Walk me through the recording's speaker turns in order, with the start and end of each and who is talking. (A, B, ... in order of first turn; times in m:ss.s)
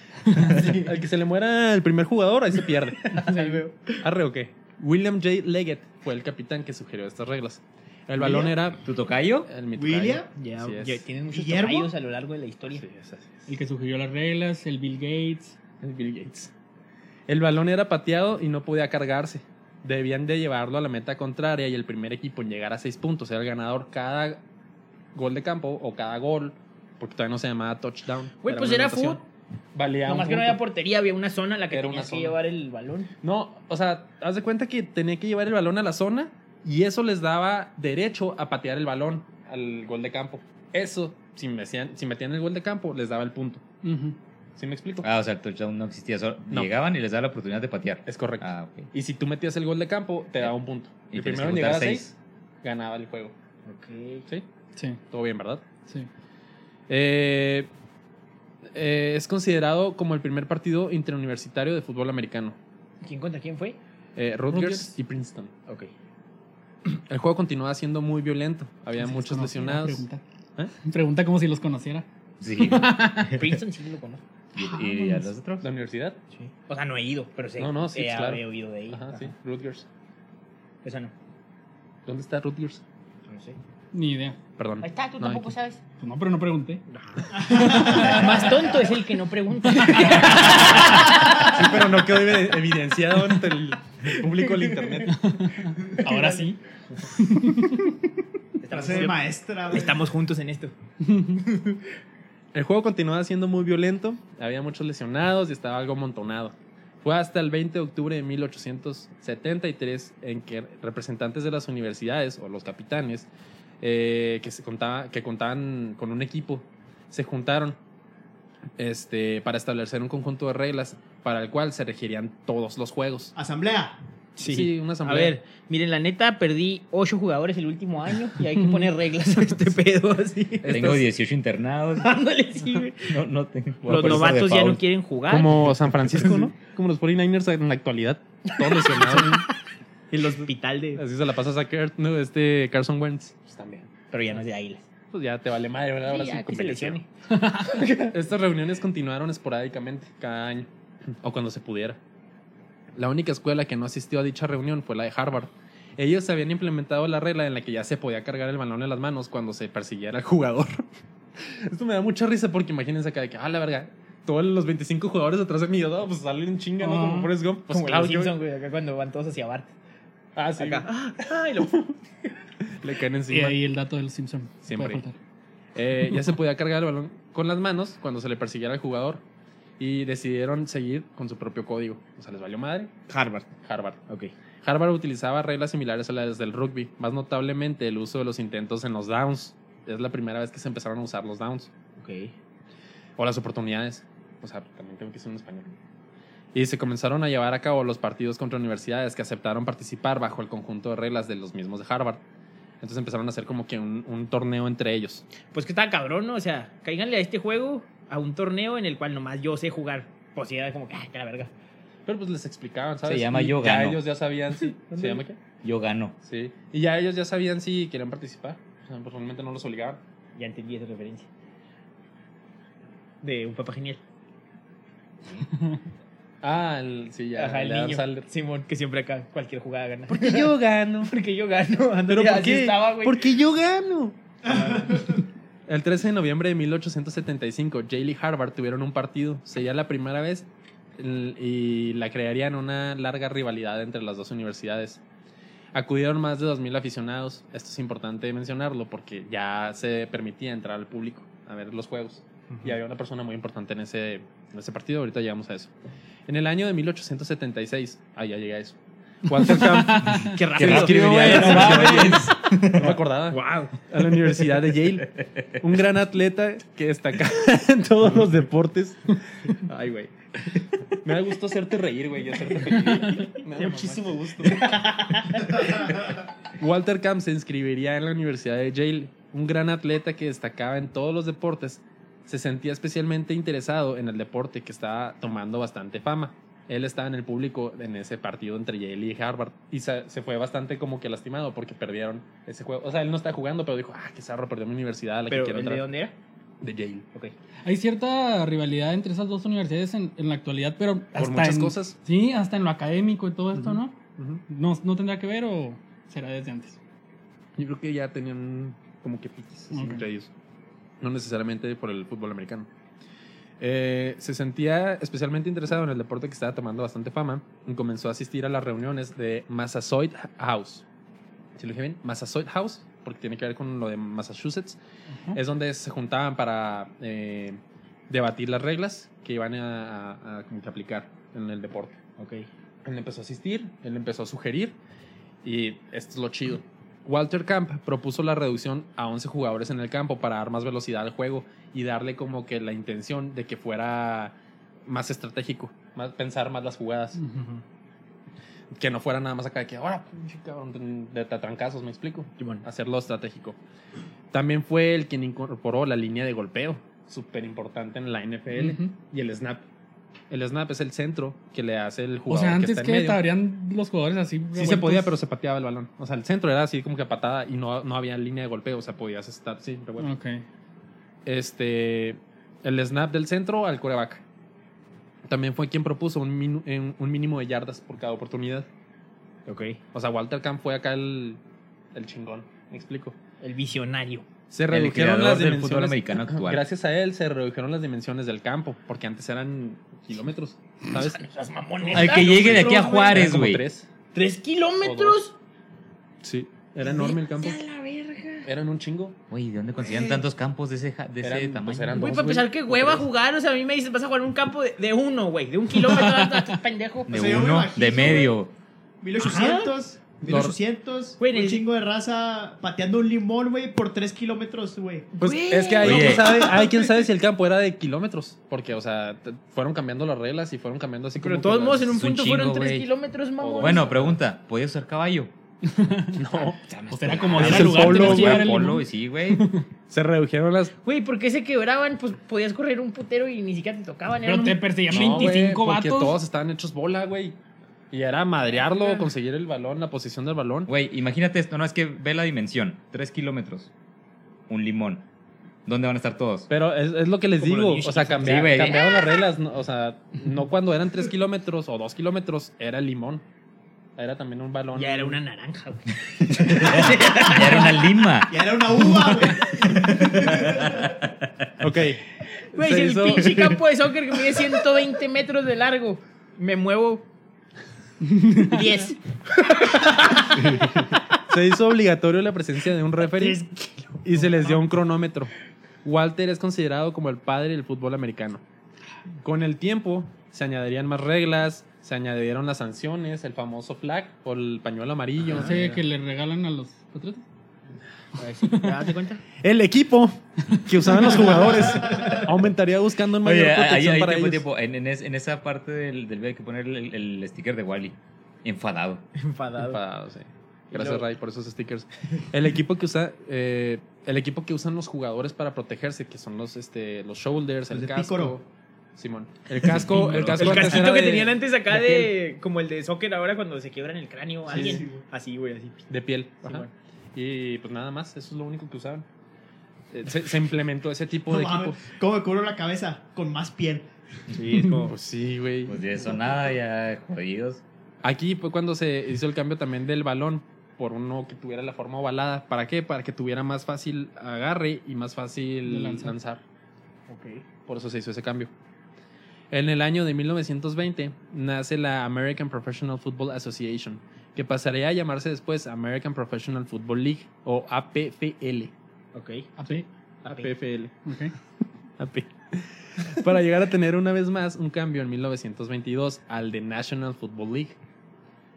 0:00.3-0:00.7 A
0:00.4-0:08.8 B
0:03.1-0:03.9 C
0:03.3-0:03.6 A
0:08.2-0:08.5 D
0:08.8-0:09.5 E
0:09.5-0:11.0 B
0:09.8-0:10.3 D
0:10.4-0:12.8 C
0:11.3-0:11.9 D
0:12.7-0:13.5 B
0:13.5-0:15.6 A
0:15.8-0:16.5 B
0:17.3-0:24.4 B
0:25.2-0:29.2 B
0:28.4-0:29.2 C
0:29.8-0:30.6 B
0:30.1-0:33.1 C
0:31.7-0:32.4 B
0:33.2-0:43.6 B
0:43.8-0:44.2 A
0:44.6-0:45.1 B
0:45.0-0:48.9 E
0:48.1-0:53.3 B
0:51.1-0:52.1 E
0:53.7-0:54.2 C
0:55.1-0:55.7 B
0:56.9-0:57.7 B
0:58.7-1:02.6 B
1:03.0-1:03.8 C
1:04.2-1:05.5 B
1:04.5-1:05.0 A
1:07.0-1:10.0 B
1:09.0-1:10.2 A
1:10.8-1:13.6 A
1:12.4-1:13.1 E
1:13.2-1:14.2 C
1:14.6-1:15.7 E
1:14.6-1:15.3 A
1:15.6-1:16.2 B
1:16.4-1:19.3 C
1:17.6-1:19.9 B
1:20.8-1:21.1 C
1:22.1-1:22.8 B
1:23.3-1:23.6 C
1:23.9-1:24.4 A
1:24.6-1:25.5 B
1:24.8-1:25.8 C
1:26.0-1:28.7 A
1:26.9-1:31.7 C
1:29.6-1:31.2 A
1:30.2-1:35.3 B
1:34.0-1:34.9 C
1:35.1-1:36.6 A
1:37.1-1:37.9 A
1:38.6-1:40.7 C
1:38.7-1:40.1 D
1:41.1-1:41.5 A
1:42.5-1:53.3 B
1:53.8-1:57.8 B
1:58.8-2:03.4 B
2:03.4-2:04.0 D
2:04.4-2:11.0 C
2:04.4-2:05.4 B
2:10.6-2:11.0 B
2:10.7-2:12.2 E
2:12.0-2:13.2 C
2:13.0-2:14.8 E
2:13.8-2:14.3 B
2:13.9-2:16.5 C
2:15.3-2:19.5 B
2:18.5-2:19.5 C
2:20.1-2:23.9 B
2:20.2-2:21.0 C
2:24.1-2:24.8 C
2:25.1-2:27.0 B
2:26.1-2:28.1 C
2:27.3-2:27.9 A
2:28.0-2:30.7 B
2:31.2-2:32.0 B
2:33.0-2:40.8 B
2:41.4-2:48.4 B
2:46.8-2:47.4 A
2:47.7-2:49.7 C
2:50.4-2:50.9 B
2:50.6-2:51.8 C
2:51.6-2:51.9 B
2:52.7-2:53.6 B
2:53.3-2:55.2 A
2:54.6-2:55.0 B
2:55.8-2:59.2 B
2:56.0-2:56.4 A
2:59.8-3:02.9 B
3:03.1-3:03.5 C
3:03.6-3:04.0 B
3:04.6-3:11.7 B
3:12.0-3:12.3 C
3:13.2-3:15.7 B
3:16.5-3:22.2 B
3:22.8-3:25.2 B
3:25.5-3:31.5 C
3:32.1-3:35.4 B
3:33.0-3:34.0 E
3:34.8-3:35.2 C
3:35.6-3:36.2 E
3:36.2-3:40.0 B
3:40.4-3:41.3 C
3:43.2-3:44.0 C
3:46.4-3:48.3 B
3:47.4-3:53.4 C
3:50.1-3:51.1 B
3:52.1-4:00.5 B
3:54.4-3:55.2 C
4:01.0-4:05.0 B
4:05.8-4:15.7 B
4:12.5-4:12.8 C
4:16.3-4:30.1 B
4:19.5-4:20.4 A
4:20.2-4:22.3 C
4:20.6-4:23.0 E
4:21.9-4:22.2 A
4:23.3-4:23.8 C
4:25.2-4:25.5 E
4:30.9-4:34.8 B
4:32.7-4:35.9 C
4:35.5-4:36.0 B
4:36.6-4:55.9 B
4:55.3-4:56.1 C
4:56.6-4:57.1 B
4:57.6-5:04.0 A
5:01.2-5:02.0 B
5:03.6-5:04.4 B
5:04.5-5:06.8 A
5:07.6-5:10.3 B
5:09.7-5:10.0 A
5:11.0-5:12.7 B
5:13.6-5:20.8 B
5:21.6-5:24.8 B
5:25.3-5:32.0 B
5:32.2-5:32.5 C
5:32.8-5:34.8 B
5:35.4-5:44.4 B
5:44.9-5:47.2 B
5:47.2-5:47.6 A
5:48.8-5:53.6 B
5:52.4-5:52.6 C
5:54.3-5:59.6 B
5:58.5-5:58.9 A
6:00.3-6:03.2 B
6:02.3-6:05.1 A
6:04.6-6:10.1 B
6:10.0-6:10.4 A
6:11.3-6:14.2 B
6:15.3-6:18.7 B
6:19.5-6:19.8 C
6:19.9-6:21.4 B
6:21.9-6:23.2 B
6:23.4-6:24.2 C
6:24.5-6:31.3 B
6:24.7-6:26.6 E
6:30.9-6:33.2 C
6:31.8-6:33.9 B
6:31.9-6:33.6 E
6:32.8-6:33.1 D
6:34.1-6:35.4 C
6:34.8-6:35.2 B
6:36.2-6:37.6 B
6:36.8-6:38.5 C
6:38.4-6:39.2 B
6:39.3-6:42.1 E
6:39.8-6:40.2 C
6:41.2-6:43.0 B
6:42.0-6:47.5 C
6:45.8-6:46.6 A
6:47.1-6:48.5 E
6:47.1-6:48.4 D
6:49.0-6:55.1 D
6:49.2-6:49.7 C
6:50.2-6:50.6 B
6:51.2-6:51.6 C
6:55.2-6:57.0 C
6:55.2-7:02.0 B
6:55.8-6:56.3 E
7:01.2-7:03.9 C
7:01.9-7:02.9 E
7:03.4-7:04.1 B
7:03.6-7:05.3 E
7:05.7-7:06.2 A
7:06.2-7:06.7 B
7:06.7-7:09.5 E
7:06.9-7:09.6 A
7:07.3-7:08.7 B
7:09.9-7:10.7 B
7:10.8-7:15.4 C
7:14.2-7:16.2 A
7:14.9-7:17.4 B
7:17.9-7:20.7 B
7:18.5-7:19.1 C
7:20.7-7:23.7 E
7:24.5-7:25.0 E
7:25.7-7:26.5 E
7:26.5-7:33.2 B
7:27.4-7:29.0 C
7:28.2-7:28.9 E
7:34.0-7:35.2 B
7:34.8-7:37.9 C
7:36.6-7:38.4 E
7:38.3-7:40.9 D
7:40.1-7:41.1 E
7:41.6-7:43.6 B
7:42.4-7:47.1 C
7:48.1-7:48.6 A
7:48.3-7:51.0 C
7:49.8-7:53.4 B
7:53.0-7:54.3 C
7:54.0-7:55.3 B
7:55.8-7:58.4 B
7:59.2-8:05.8 B
8:05.3-8:07.2 A
8:08.2-8:09.2 C
8:08.5-8:08.8 A
8:09.4-8:14.4 B
8:10.5-8:11.2 A
8:13.2-8:19.0 E
8:19.2-8:19.8 C
8:19.6-8:32.1 B
8:20.7-8:21.1 C
8:27.7-8:28.4 D
8:30.0-8:35.8 C
8:34.5-8:34.8 B
8:34.6-8:35.0 D
8:35.9-8:39.0 B
8:36.4-8:36.7 C
8:39.9-8:41.8 B
8:41.3-8:43.9 D
8:44.4-8:44.9 C
8:44.6-8:45.9 B
8:45.7-8:47.6 E
8:48.0-8:56.4 B
8:55.7-8:56.1 A
8:57.1-8:57.4 C
8:57.7-8:58.5 B
8:59.5-9:08.7 B
9:09.1-9:09.5 C
9:09.6-9:09.8 A
9:10.2-9:11.0 B
9:10.3-9:10.5 C
9:11.0-9:11.3 A
9:12.0-9:17.8 B